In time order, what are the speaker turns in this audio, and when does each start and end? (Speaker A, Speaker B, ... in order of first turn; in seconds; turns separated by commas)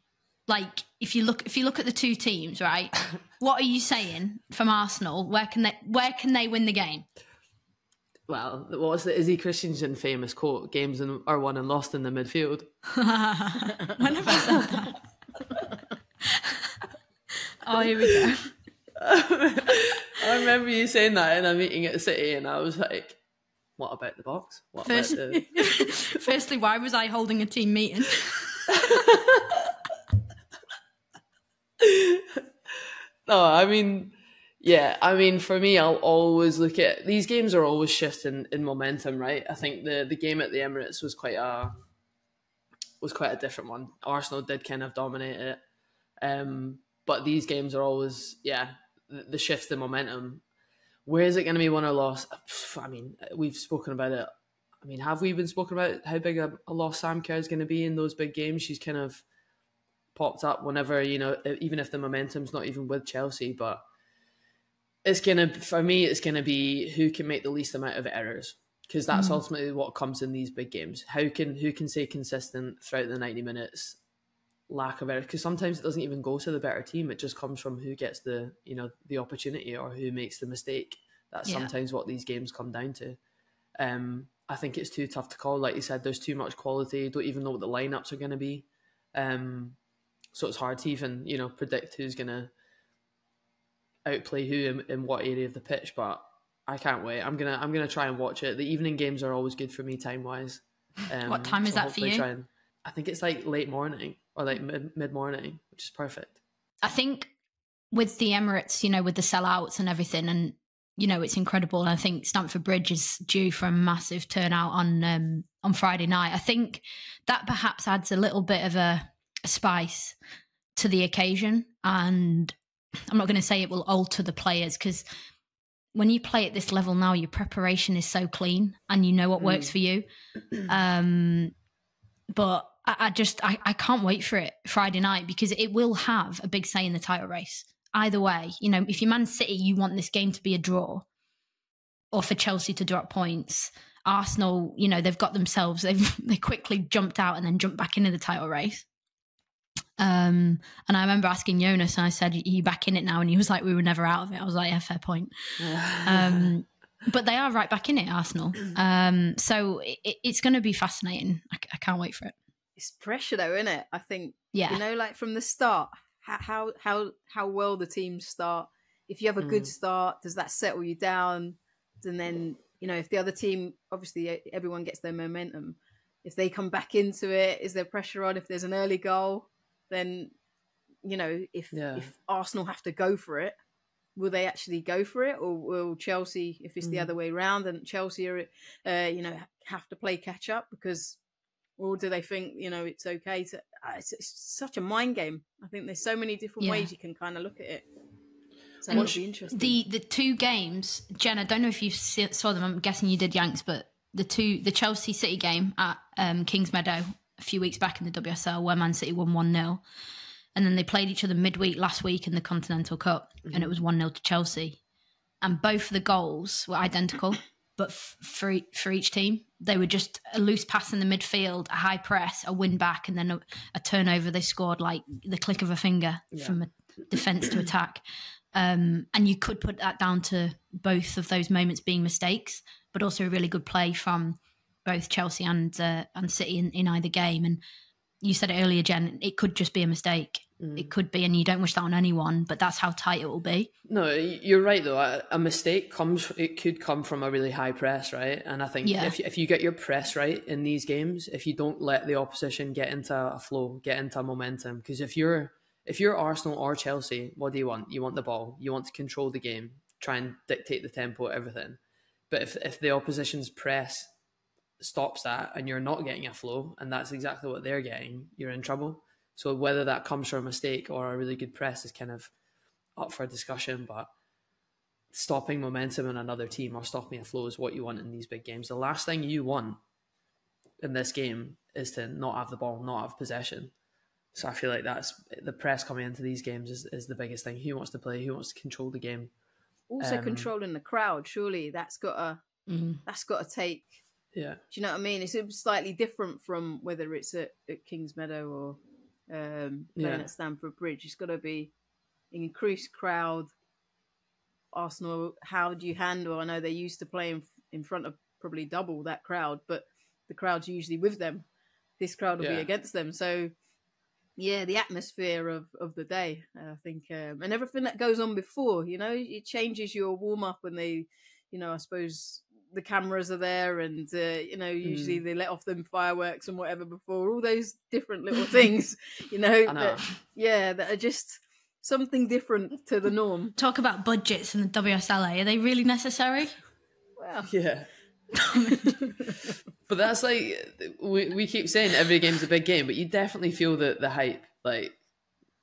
Speaker A: 0.5-7.0, Speaker B: 8.3-12.7, Speaker A: 12.9-14.9, Speaker A: 17.6-18.5, Speaker B: 19.0-23.2, Speaker B: 23.8-25.4, Speaker A: 24.9-28.8, Speaker C: 25.2-25.6, Speaker B: 28.7-29.7, Speaker B: 31.8-32.2, Speaker B: 33.3-41.8, Speaker B: 43.0-45.6, Speaker B: 46.2-50.4, Speaker B: 51.0-59.2, Speaker B: 60.1-63.8, Speaker B: 65.0-74.0, Speaker A: 69.1-69.4, Speaker B: 74.7-83.2, Speaker A: 81.4-81.7, Speaker B: 83.8-89.8, Speaker B: 90.3-92.5, Speaker B: 94.0-106.4, Speaker A: 101.2-102.3, Speaker A: 106.8-107.3, Speaker A: 107.9-120.2, Speaker A: 120.8-122.5, Speaker A: 123.1-125.0, Speaker A: 125.9-130.1, Speaker B: 129.4-129.7, Speaker A: 130.6-131.5, Speaker A: 132.3-141.0, Speaker A: 142.1-148.8, Speaker A: 150.0-162.3, Speaker B: 155.6-156.5, Speaker C: 162.8-180.3, Speaker A: 164.5-164.8, Speaker B: 169.4-169.7, Speaker C: 181.0-183.5, Speaker B: 181.7-182.1, Speaker C: 184.2-191.2, Speaker B: 186.8-187.1, Speaker C: 191.8-197.8, Speaker A: 196.6-196.9, Speaker C: 198.8-199.8, Speaker A: 198.9-209.8, Speaker A: 210.5-214.8, Speaker B: 213.4-213.7, Speaker A: 215.4-228.0, Speaker B: 226.3-226.6, Speaker A: 228.5-237.6, Speaker A: 238.2-243.7, Speaker B: 240.6-240.9, Speaker B: 243.9-261.8, Speaker A: 248.8-249.2, Speaker B: 262.3-264.1, Speaker B: 264.8-272.3, Speaker B: 273.0-274.1, Speaker B: 275.1-279.8, Speaker B: 280.8-283.7, Speaker B: 284.3-289.3, Speaker C: 289.9-292.4, Speaker B: 290.0-290.5, Speaker A: 292.7-293.0, Speaker C: 293.1-293.9, Speaker B: 294.3-294.6, Speaker C: 294.7-298.8, Speaker C: 299.3-301.7, Speaker B: 299.9-300.3, Speaker C: 302.3-303.5, Speaker C: 304.7-311.4, Speaker C: 312.0-313.5, Speaker B: 312.4-312.7, Speaker C: 314.4-333.5, Speaker B: 324.8-325.2, Speaker B: 329.7-330.0, Speaker A: 333.6-336.5, Speaker C: 337.2-337.5, Speaker B: 337.5-337.9, Speaker A: 338.3-339.0, Speaker C: 338.8-339.2, Speaker B: 339.9-345.0